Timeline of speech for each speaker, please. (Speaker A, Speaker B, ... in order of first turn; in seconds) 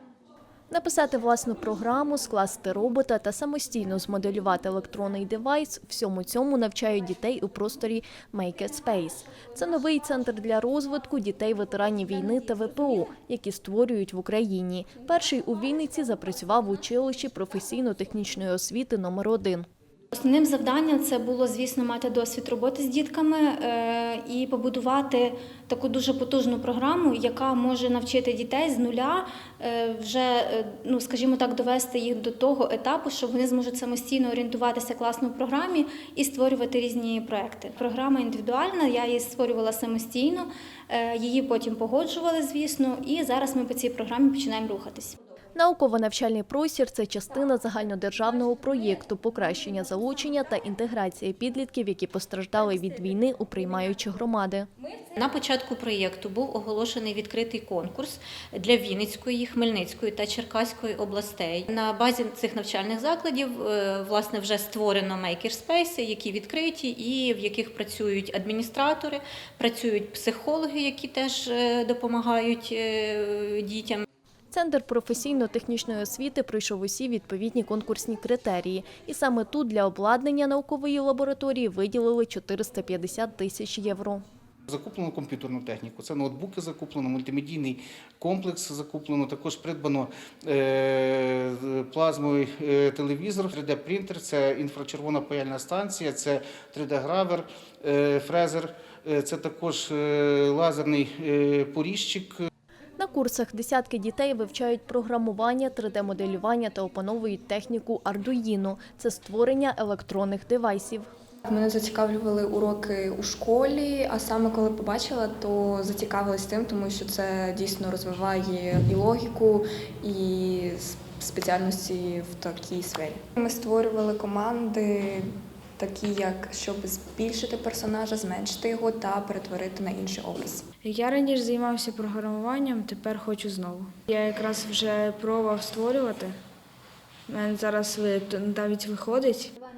Speaker A: 0.7-19.7, 45.6-54.7, 74.5-84.2, 103.0-111.1
Speaker B: 20.1-45.2
Speaker C: 55.2-74.0
Speaker D: 84.7-102.5
Speaker E: 111.5-130.6
Speaker F: 130.8-136.4, 137.3-139.5